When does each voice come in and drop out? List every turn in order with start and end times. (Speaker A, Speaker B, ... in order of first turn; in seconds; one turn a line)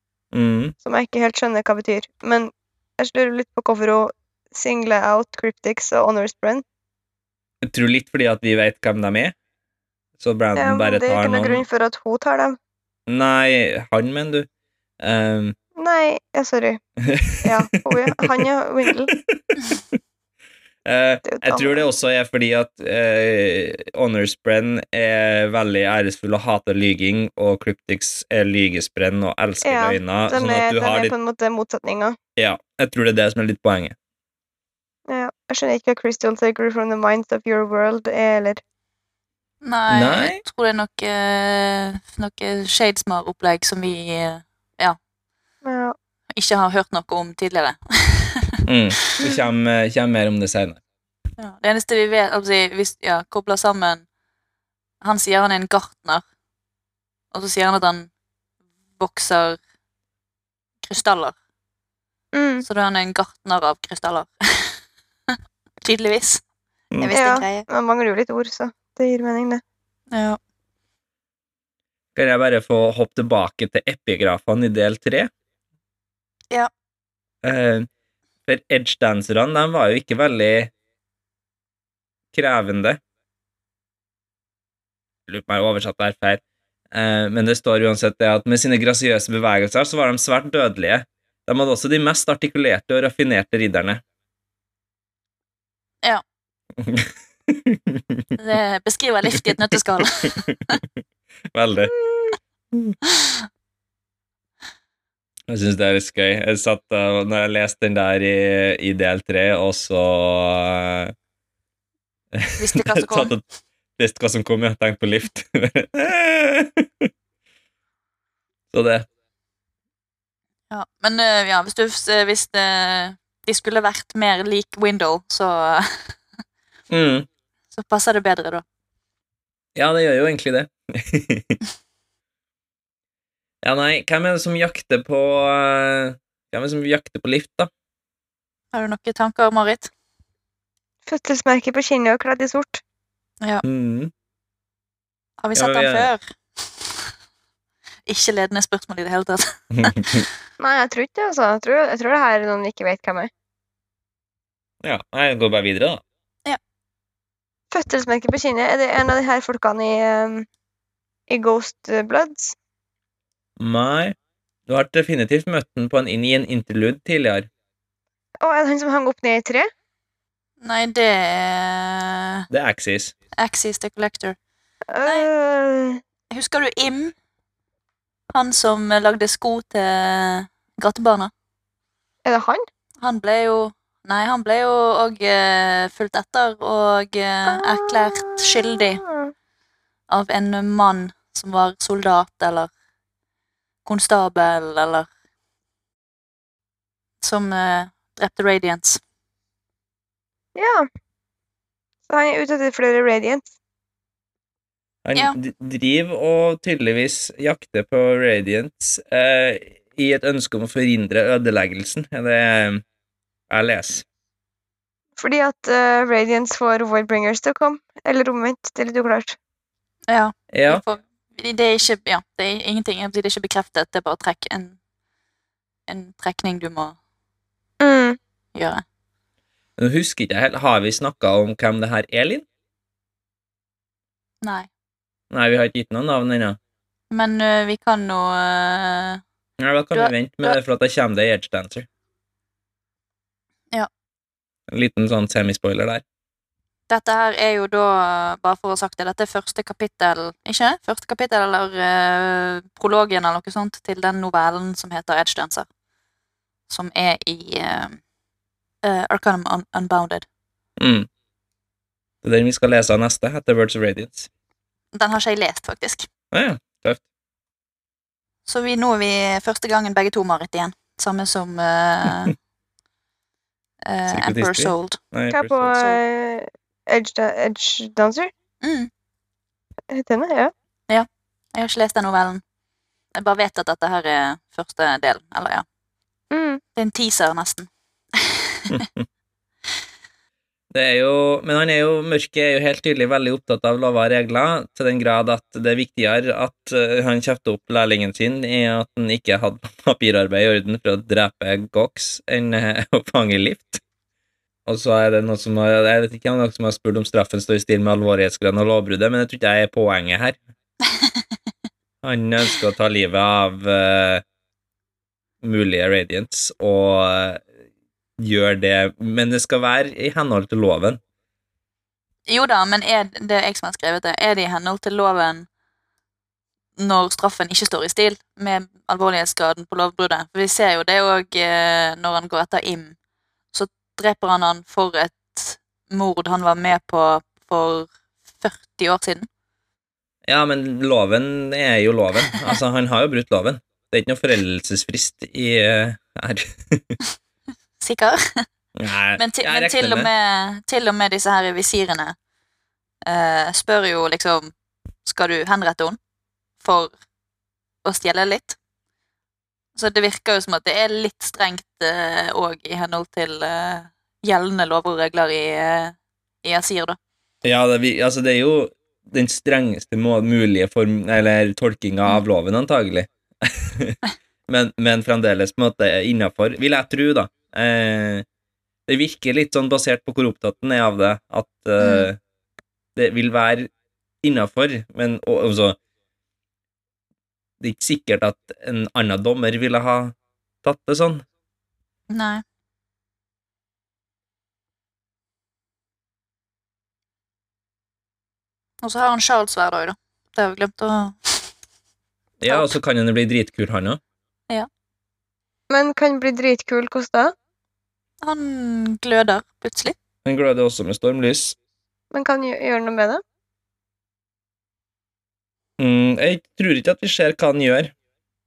Speaker A: 0.3-0.8
Speaker B: 0.8-6.6
Speaker A: 7.6-9.3
Speaker A: 10.2-11.7
Speaker B: 10.6-12.6
Speaker A: 13.1-14.5
Speaker A: 15.0-15.6
Speaker B: 15.8-16.8
Speaker A: 17.0-19.8
Speaker B: 17.4-19.1
Speaker A: 20.9-31.1
Speaker B: 21.2-21.8
Speaker B: 29.6-32.2
Speaker A: 32.4-34.0
Speaker B: 35.1-38.6
Speaker C: 39.6-45.0
Speaker A: 39.9-40.4
Speaker B: 45.6-46.0
Speaker C: 46.3-48.6
Speaker A: 48.7-50.8
Speaker C: 51.4-54.0
Speaker C: 55.0-56.2
Speaker C: 57.3-58.1
Speaker C: 59.0-59.6
Speaker C: 60.8-61.4
Speaker B: 62.3-62.6
Speaker C: 62.6-64.8
Speaker C: 65.8-66.4
Speaker C: 67.0-67.7
Speaker B: 67.1-69.6
Speaker C: 70.1-70.4
Speaker A: 72.2-75.3
Speaker A: 77.4-77.9
Speaker A: 78.5-80.7
Speaker A: 82.3-83.0
Speaker A: 85.3-94.0
Speaker A: 96.8-98.3
Speaker C: 98.4-100.8
Speaker A: 100.2-100.7
Speaker A: 101.5-101.9
Speaker A: 105.5-111.1
Speaker A: 112.3-113.4
Speaker C: 112.6-113.3
Speaker A: 114.0-117.1
Speaker A: 118.7-119.1
Speaker C: 120.7-126.2
Speaker A: 126.9-127.3
Speaker C: 127.7-128.6
Speaker A: 129.8-131.6
Speaker A: 133.6-137.7
Speaker C: 138.7-139.9
Speaker B: 141.1-142.8
Speaker A: 143.6-144.1
Speaker C: 145.4-146.9
Speaker A: 145.6-146.1
Speaker C: 148.1-150.3
Speaker A: 149.8-150.2
Speaker B: 150.6-153.3
Speaker A: 154.8-156.0
Speaker B: 157.7-160.5
Speaker B: 161.3-162.6
Speaker A: 163.6-164.2
Speaker A: 164.7-167.5
Speaker B: 168.4-169.7
Speaker C: 170.6-172.5
Speaker A: 172.5-173.1
Speaker C: 173.3-174.4
Speaker B: 174.9-176.0
Speaker C: 176.3-177.1
Speaker C: 178.3-181.3
Speaker B: 182.2-182.7
Speaker C: 183.0-189.0
Speaker B: 187.5-189.3
Speaker C: 190.1-192.7
Speaker C: 193.8-195.1
Speaker C: 197.2-199.0
Speaker B: 200.6-200.9
Speaker B: 202.1-203.5
Speaker A: 205.1-212.8
Speaker A: 213.5-214.0
Speaker B: 215.2-219.4
Speaker C: 220.1-224.8
Speaker A: 220.5-220.8
Speaker C: 225.9-227.0
Speaker B: 227.8-228.2
Speaker C: 228.6-228.8
Speaker A: 229.8-232.5
Speaker C: 234.4-234.7
Speaker A: 235.3-236.6
Speaker C: 237.1-239.2
Speaker A: 239.6-241.9
Speaker C: 239.9-240.6
Speaker A: 244.7-246.0
Speaker C: 246.9-255.7
Speaker C: 256.7-258.0
Speaker C: 258.8-260.3
Speaker A: 260.8-261.1
Speaker A: 262.2-264.3
Speaker C: 264.9-266.1
Speaker A: 266.3-267.0
Speaker C: 268.5-272.4
Speaker C: 273.9-275.0
Speaker A: 274.1-275.7
Speaker B: 275.3-278.3
Speaker C: 275.7-276.0
Speaker C: 278.6-278.9
Speaker B: 279.9-280.5
Speaker C: 280.9-282.4
Speaker C: 283.1-285.6
Speaker B: 286.3-286.6
Speaker C: 286.8-288.9
Speaker A: 288.7-289.0
Speaker A: 290.7-303.8
Speaker A: 304.7-310.4
Speaker C: 310.9-311.2
Speaker A: 312.0-314.2
Speaker A: 315.4-317.5
Speaker A: 318.2-321.0
Speaker C: 322.3-325.5
Speaker C: 326.8-333.0
Speaker C: 333.5-339.3
Speaker A: 340.3-347.0
Speaker C: 347.8-348.5
Speaker A: 348.8-350.1
Speaker C: 349.2-352.2
Speaker C: 353.1-354.5
Speaker C: 355.1-356.0
Speaker C: 356.6-356.9
Speaker C: 357.8-358.6
Speaker C: 359.8-367.0
Speaker A: 367.4-378.3
Speaker A: 378.9-382.2
Speaker C: 381.8-382.1
Speaker A: 383.0-383.7
Speaker A: 384.2-385.8
Speaker A: 387.6-391.2
Speaker C: 392.1-392.4
Speaker C: 398.8-401.5
Speaker A: 402.4-404.0
Speaker C: 402.5-402.8
Speaker B: 405.7-407.3
Speaker C: 408.2-410.0
Speaker A: 410.2-411.6
Speaker B: 412.1-413.2
Speaker A: 415.8-417.9